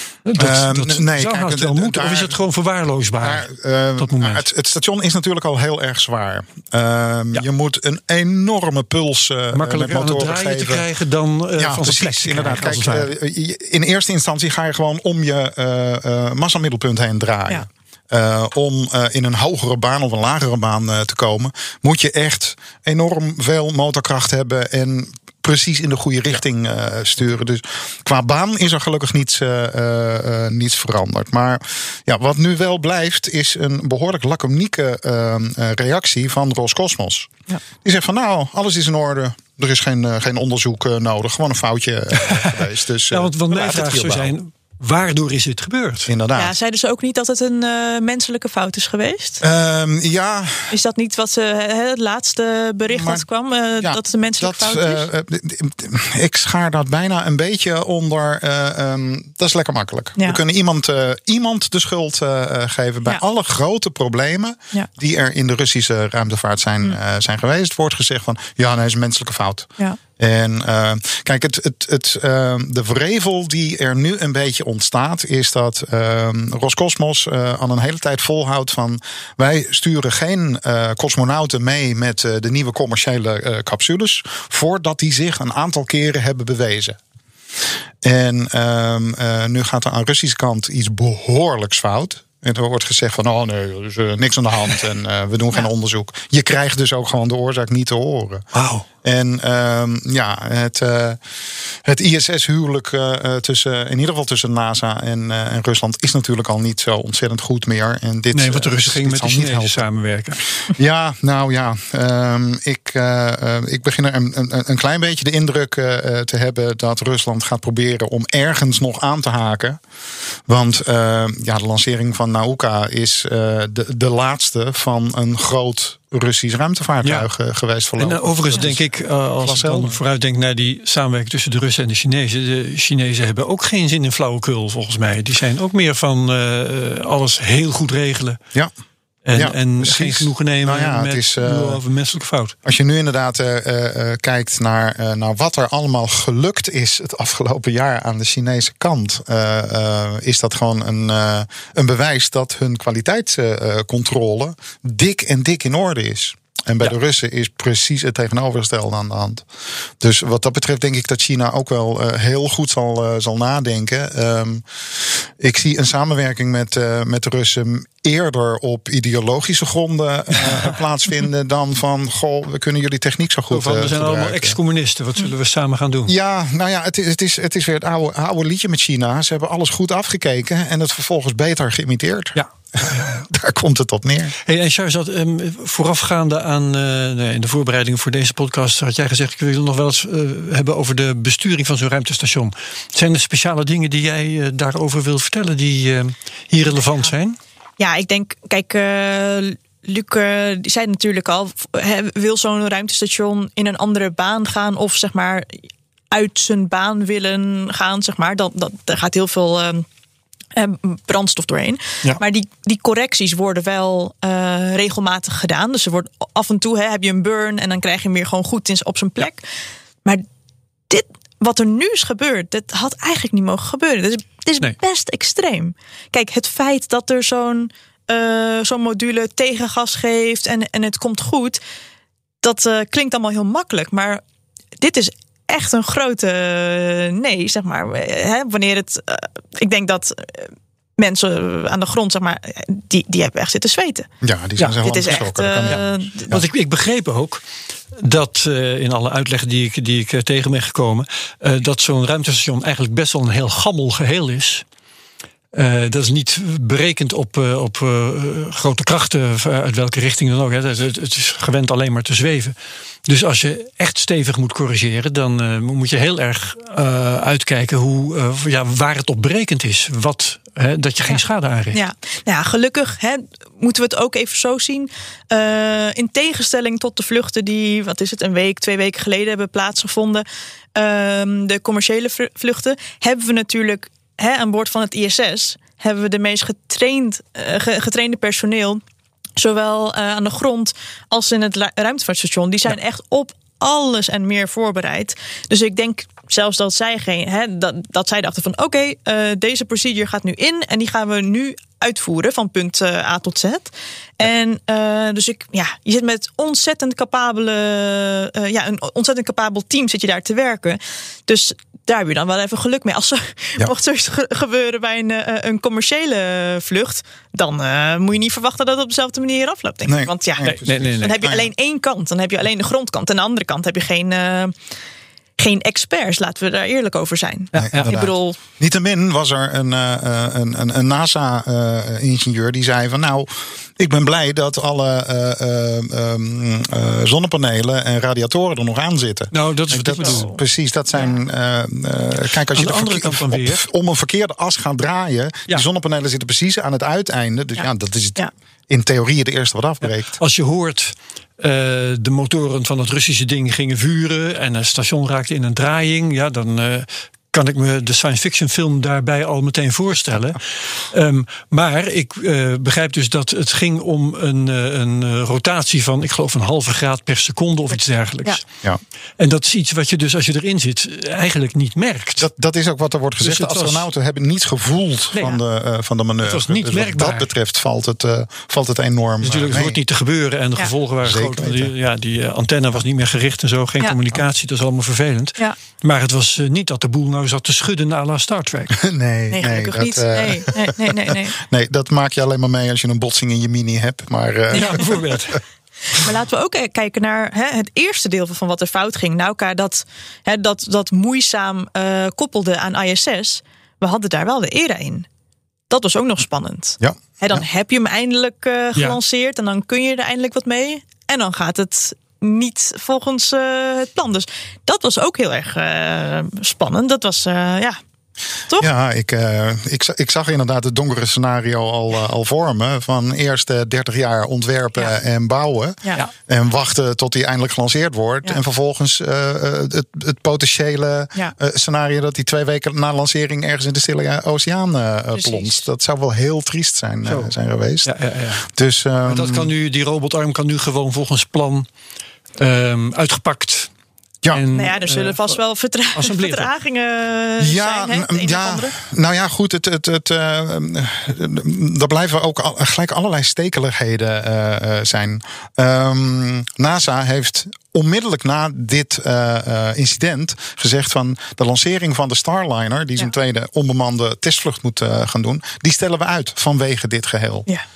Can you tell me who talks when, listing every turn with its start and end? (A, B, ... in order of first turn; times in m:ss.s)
0:00.2-0:03.5 A
0:00.4-0:02.4 B
0:03.2-0:10.8 B
0:04.0-0:04.4 A
0:09.5-0:13.1 A
0:11.6-0:44.3 B
0:42.2-0:46.1 A
0:46.0-0:46.5 B
0:46.3-0:49.4 C
0:49.4-0:50.7 B
0:50.7-0:55.1 C
0:52.9-0:53.2 B
0:53.8-1:27.0 B
1:28.0-1:38.5 B
1:38.5-1:38.8 A
1:39.0-1:41.2 B
1:41.8-1:49.8 B
1:48.3-1:50.4 A
1:50.7-1:59.8 B
2:00.5-2:08.8 B
2:07.0-2:07.3 A
2:08.0-2:18.4 A
2:09.4-2:10.0 B
2:19.2-2:22.5 A
2:19.3-2:21.8 B
2:22.6-2:39.4 B
2:40.0-2:54.6 B
2:53.5-2:56.1 A
2:56.1-3:04.4 B
3:02.4-3:03.2 A
3:04.4-3:17.4 A
3:16.8-3:17.1 C
3:17.8-3:25.6 C
3:26.1-3:29.8 C
3:30.5-3:39.4 C
3:40.9-3:51.6 C
3:52.4-3:54.2 C
3:54.8-4:04.1 C
4:04.2-4:06.4 B
4:04.8-4:06.3 C
4:05.7-4:07.4 A
4:08.0-4:14.6 A
4:15.5-4:22.5 A
4:23.1-4:31.8 A
4:31.7-4:48.8 C
4:49.4-5:24.5 C
5:19.9-5:21.5 B
5:20.4-5:21.2 A
5:25.4-5:28.4 C
5:27.5-5:28.0 A
5:27.6-5:50.2 B
5:39.3-5:40.3 A
5:40.0-5:40.4 C
5:42.5-5:43.6 A
5:47.6-5:48.3 C
5:49.8-6:08.4 A
6:09.2-6:12.3 A
6:12.2-6:19.8 B
6:13.2-6:13.9 A
6:16.2-6:17.3 A
6:19.2-6:28.8 A
6:21.0-6:21.7 B
6:28.8-6:35.4 B
6:29.3-6:31.4 C
6:34.5-6:34.9 C
6:34.5-6:35.4 A
6:35.9-6:45.1 C
6:45.7-6:57.8 C
6:46.8-6:47.4 B
6:58.6-7:17.9 B
7:15.1-7:15.6 C
7:17.0-7:17.3 A
7:17.8-7:18.4 A
7:18.4-7:19.5 B
7:19.0-7:21.7 A
7:22.4-7:23.7 A
7:24.3-7:25.4 A
7:24.5-7:28.7 C
7:25.9-7:26.5 A
7:27.4-7:47.5 B